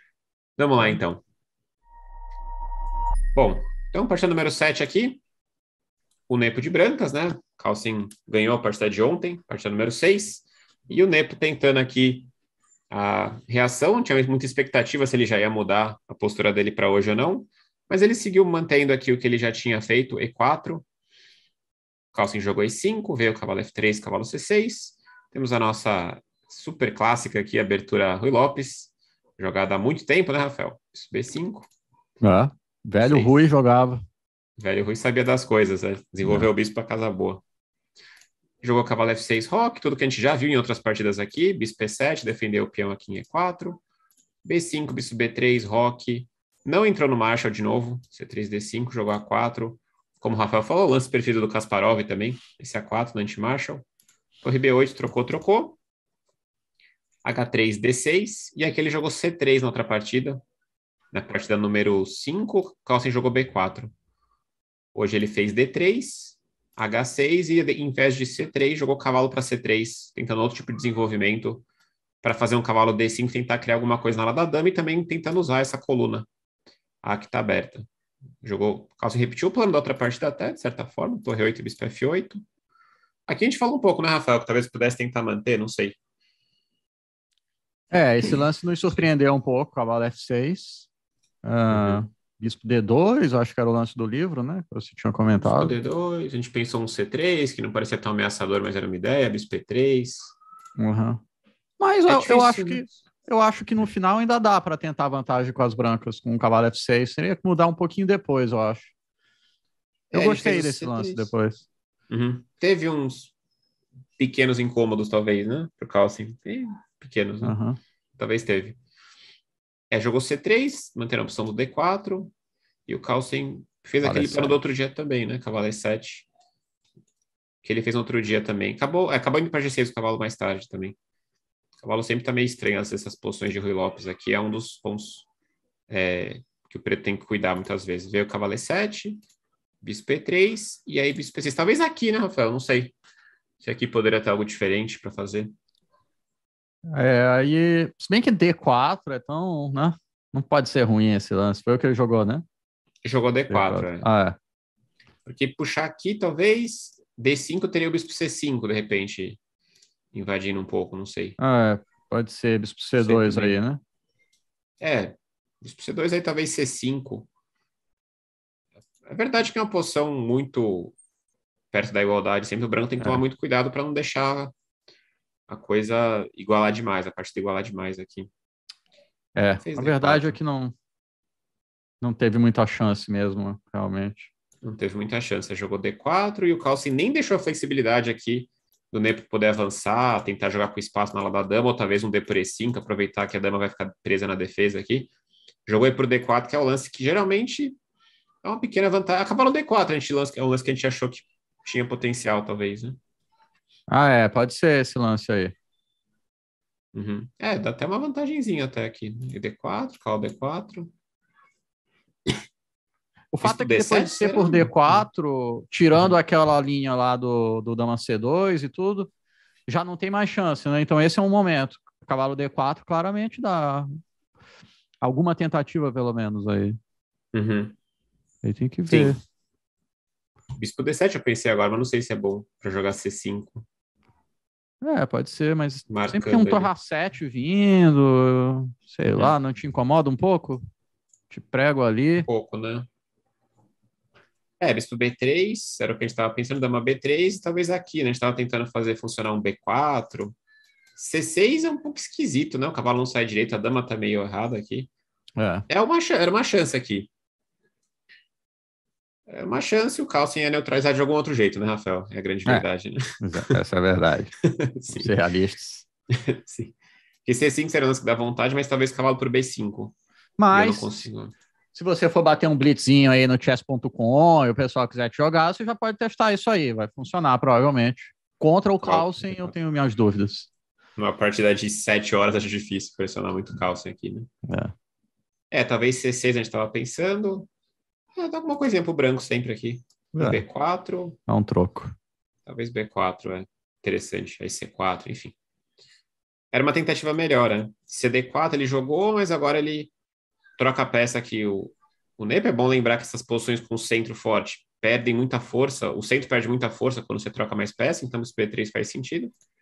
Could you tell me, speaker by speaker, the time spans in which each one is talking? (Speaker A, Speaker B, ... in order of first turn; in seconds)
Speaker A: 0.6-1.2, 3.4-5.2, 6.3-12.3, 12.9-20.9, 22.1-31.7, 33.0-33.4, 34.6-37.4, 38.6-43.8, 44.4-53.9, 54.4-55.8, 57.2-60.4, 61.1-63.9, 65.0-71.7, 72.2-76.3, 77.0-77.9, 78.4-82.4, 83.3-86.0, 91.7-92.0, 95.4-100.3, 102.1-102.9, 110.1-111.3, 112.1-113.3, 114.2-117.5, 118.2-118.8, 119.9-122.3, 122.9-126.3, 127.6-131.0, 131.8-135.3, 135.9-139.2, 139.8-143.0, 143.6-145.5, 153.1-154.1, 155.2-159.4, 160.1-161.4, 163.0-163.6, 164.8-167.3, 169.1-170.9, 171.7-174.5, 175.5-178.3, 179.6-180.4, 184.6-195.1, 195.7-197.8, 198.4-203.0, 206.9-210.9, 213.4-215.1, 227.3-227.8, 228.9-229.2, 230.6-233.7, 235.9-236.7, 242.2-242.9, 244.6-250.4, 251.0-254.9, 255.7-257.1, 259.3-263.5, 264.4-265.1, 266.1-269.9, 270.5-271.4, 278.8-279.5, 281.0-284.3, 285.5-287.5, 288.2-291.2, 292.5-295.4, 296.5-299.9, 300.6-309.3
Speaker B: 32.2-34.0, 36.2-36.5, 87.9-90.9, 91.4-95.8, 100.8-101.2, 101.8-108.9, 110.1-111.6, 117.4-117.8, 124.0-124.6, 146.9-152.4, 153.5-154.4, 161.4-163.8, 179.4-180.7, 182.0-184.3, 203.9-205.5, 213.3-219.1, 219.7-223.9, 225.0-226.8, 228.4-229.2, 234.8-240.6, 241.3-242.3, 255.4-255.7, 263.2-264.3, 265.0-265.9, 270.4-271.1, 271.8-280.5, 290.1-290.4, 291.3-291.9